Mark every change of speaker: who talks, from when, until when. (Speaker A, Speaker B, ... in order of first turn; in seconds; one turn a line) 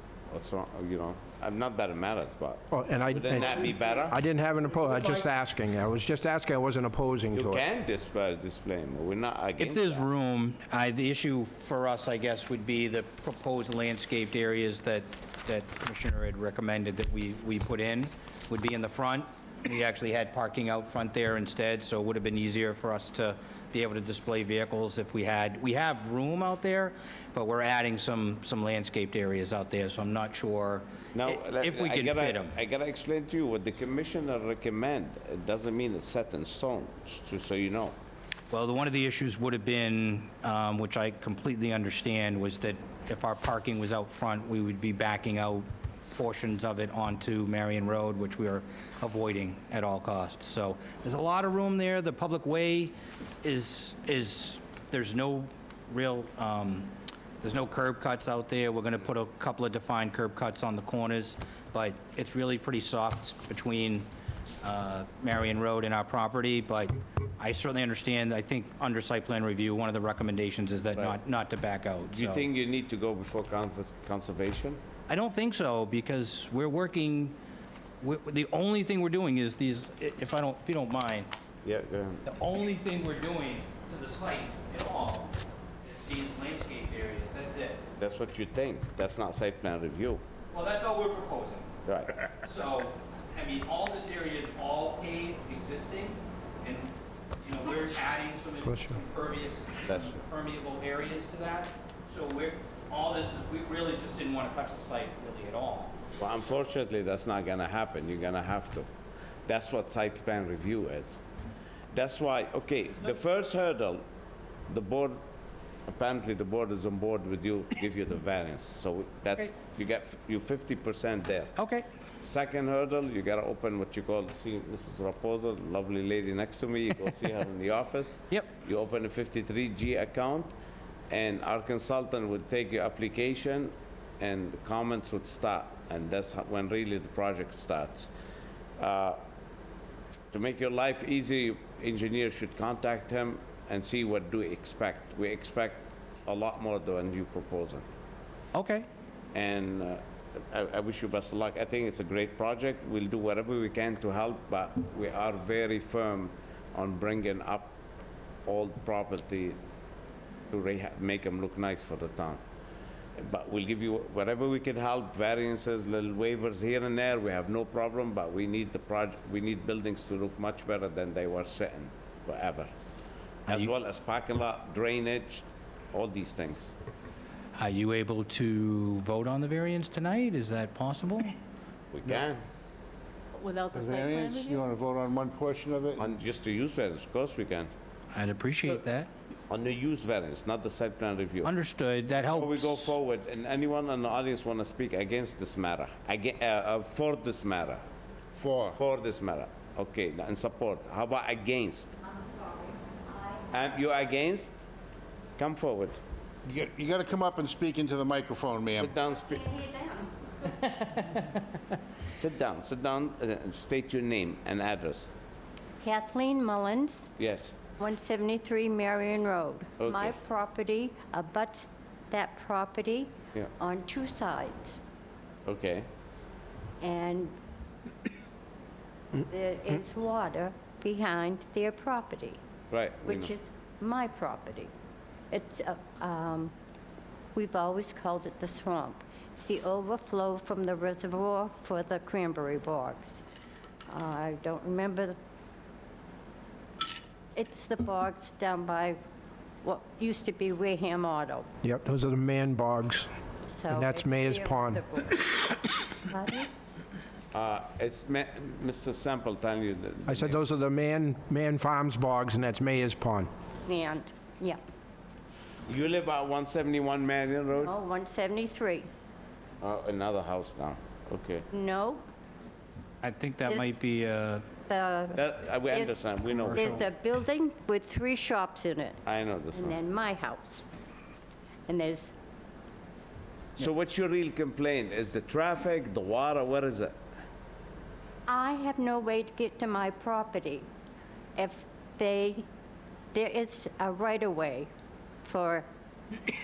Speaker A: 0.3-4.2
Speaker B: 2.7-7.6
Speaker A: 7.3-10.1
Speaker C: 9.6-32.6
Speaker A: 31.1-38.0
Speaker C: 38.5-56.9
Speaker C: 57.4-64.1
Speaker C: 64.6-72.5
Speaker A: 72.1-74.8
Speaker C: 75.1-77.4
Speaker C: 78.0-81.3
Speaker A: 81.6-82.3
Speaker C: 82.3-87.8
Speaker A: 88.0-90.2
Speaker C: 90.5-91.7
Speaker A: 91.9-92.1
Speaker C: 92.4-96.9
Speaker C: 97.4-105.9
Speaker B: 98.7-99.0
Speaker A: 99.9-100.2
Speaker A: 106.2-108.9
Speaker A: 109.5-111.2
Speaker A: 111.9-114.0
Speaker A: 114.7-115.2
Speaker A: 115.9-121.5
Speaker C: 121.6-121.9
Speaker A: 122.2-130.5
Speaker A: 131.1-138.1
Speaker A: 138.8-139.2
Speaker A: 140.3-147.8
Speaker C: 148.5-148.9
Speaker A: 149.3-157.7
Speaker A: 158.5-159.6
Speaker A: 160.5-162.4
Speaker A: 163.2-172.7
Speaker C: 173.5-173.7
Speaker A: 173.5-176.7
Speaker C: 177.6-181.3
Speaker A: 181.9-182.4
Speaker D: 183.3-184.6
Speaker E: 183.7-186.1
Speaker A: 186.0-187.7
Speaker C: 188.1-189.1
Speaker A: 189.5-191.5
Speaker C: 191.4-192.9
Speaker A: 192.2-197.8
Speaker E: 198.4-198.8
Speaker A: 198.7-201.9
Speaker D: 202.2-203.4
Speaker A: 203.5-204.7
Speaker A: 205.4-206.0
Speaker E: 206.4-209.0
Speaker A: 208.8-209.5
Speaker D: 209.3-210.1
Speaker A: 212.1-215.1
Speaker D: 215.8-217.1
Speaker A: 217.2-217.6
Speaker D: 217.8-224.8
Speaker A: 219.8-220.2
Speaker A: 225.5-225.9
Speaker D: 226.8-227.3
Speaker D: 229.2-232.4
Speaker A: 232.7-233.3
Speaker D: 233.0-234.7
Speaker D: 235.3-236.5
Speaker D: 237.3-243.2
Speaker D: 243.9-245.2
Speaker D: 247.3-249.0
Speaker D: 249.6-251.5
Speaker B: 251.6-253.1
Speaker D: 253.4-256.5
Speaker B: 253.7-254.8
Speaker A: 257.3-260.4
Speaker B: 260.1-263.3
Speaker D: 263.7-264.6
Speaker A: 265.7-267.7
Speaker D: 267.6-268.9
Speaker A: 269.6-271.5
Speaker D: 271.5-272.0
Speaker C: 273.0-274.4
Speaker D: 273.5-273.8
Speaker D: 274.7-279.0
Speaker A: 275.1-276.9
Speaker C: 276.4-276.8
Speaker A: 279.1-279.8
Speaker D: 279.5-280.6
Speaker D: 281.7-282.1
Speaker A: 283.6-287.0
Speaker D: 288.3-290.7
Speaker D: 291.4-292.5
Speaker D: 293.1-294.7
Speaker D: 295.2-295.7